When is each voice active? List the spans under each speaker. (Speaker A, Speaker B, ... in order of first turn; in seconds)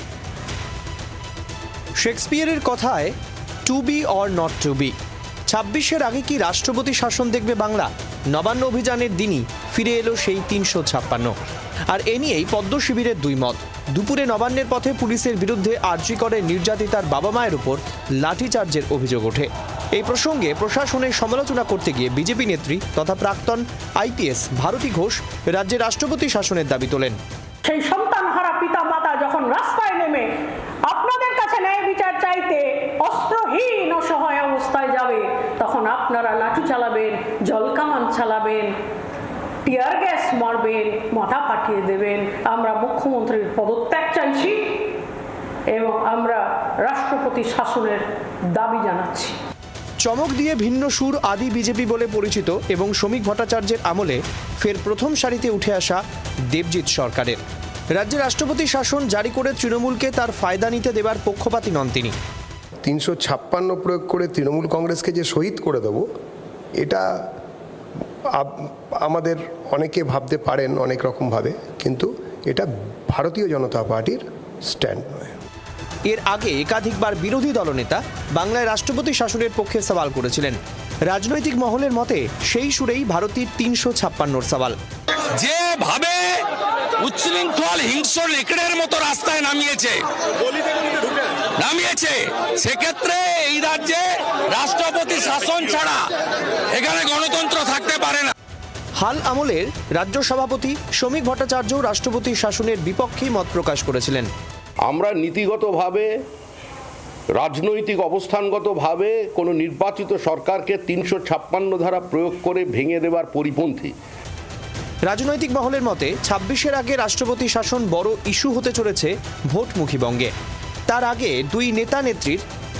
Speaker A: 2.0-3.1, 3.7-4.9, 5.5-11.3, 11.9-27.2, 50.0-57.4, 57.9-62.1, 76.1-84.8, 99.0-104.3, 115.1-120.3, 120.9-122.4
Speaker B: 27.6-30.3, 30.9-38.7, 39.6-44.6, 45.7-49.4
Speaker C: 62.8-66.1, 66.8-67.1, 68.3-75.3
Speaker D: 85.3-86.4, 87.0-90.0, 91.6-96.0, 96.7-98.3
Speaker E: 104.9-106.1, 107.3-114.0